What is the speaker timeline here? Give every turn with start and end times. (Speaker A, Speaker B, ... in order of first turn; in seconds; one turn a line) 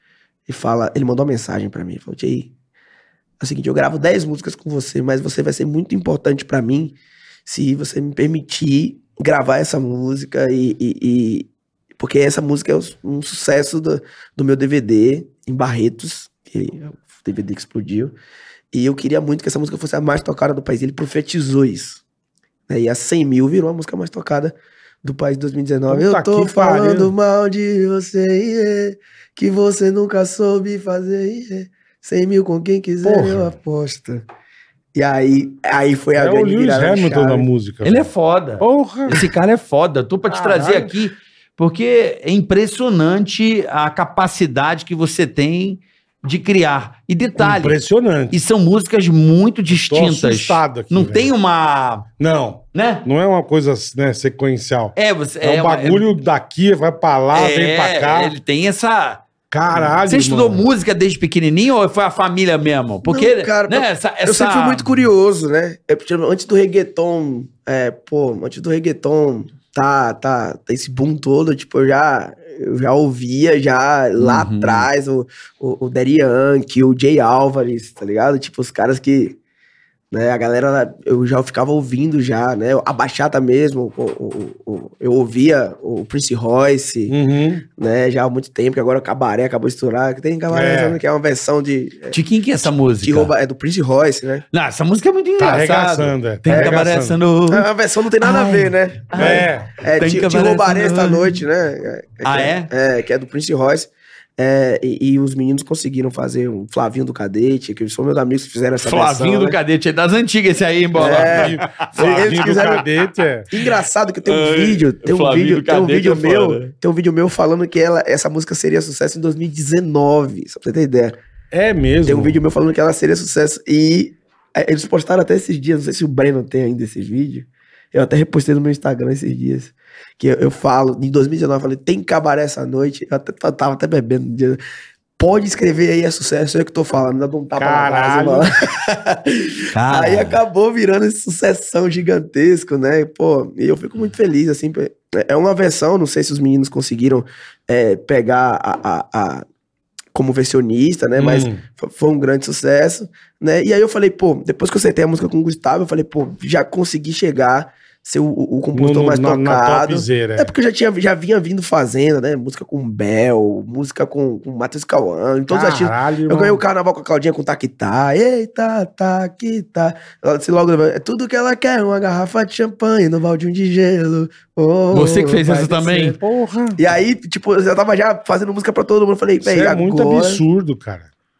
Speaker A: 0.5-2.5
Speaker A: 3.4-18.1
Speaker A: 18.7-22.0
Speaker A: 22.7-34.2
Speaker B: 25.9-27.1
Speaker B: 33.0-33.5
Speaker A: 34.9-37.5
Speaker B: 36.1-38.1
Speaker C: 37.8-47.8
Speaker B: 38.6-39.2
Speaker B: 40.3-40.9
Speaker B: 47.4-48.3
Speaker C: 48.3-52.1
Speaker B: 49.7-51.3
Speaker B: 52.2-58.4
Speaker C: 52.7-53.0
Speaker C: 55.0-56.0
Speaker C: 57.3-64.9
Speaker B: 59.5-60.7
Speaker A: 63.0-79.4
Speaker C: 74.2-74.9
Speaker A: 80.1-87.2
Speaker B: 87.1-87.6
Speaker A: 87.8-94.4
Speaker B: 90.5-91.0
Speaker C: 92.1-93.3
Speaker C: 94.5-97.7
Speaker B: 95.4-97.2
Speaker A: 96.5-96.8
Speaker A: 97.5-109.6
Speaker C: 98.2-101.4
Speaker B: 99.2-99.7
Speaker C: 102.2-102.7
Speaker C: 108.8-112.8
Speaker A: 111.0-112.9
Speaker B: 111.0-113.5
Speaker A: 113.5-121.2
Speaker C: 114.2-116.7
Speaker B: 121.5-122.4
Speaker A: 122.0-134.6
Speaker A: 135.2-149.4
Speaker B: 137.6-138.5
Speaker C: 139.7-140.4
Speaker A: 150.1-176.1
Speaker B: 151.2-151.6
Speaker B: 158.7-160.5
Speaker B: 165.5-166.6
Speaker C: 174.9-176.2
Speaker B: 175.8-176.8
Speaker A: 176.8-180.4
Speaker B: 179.4-181.1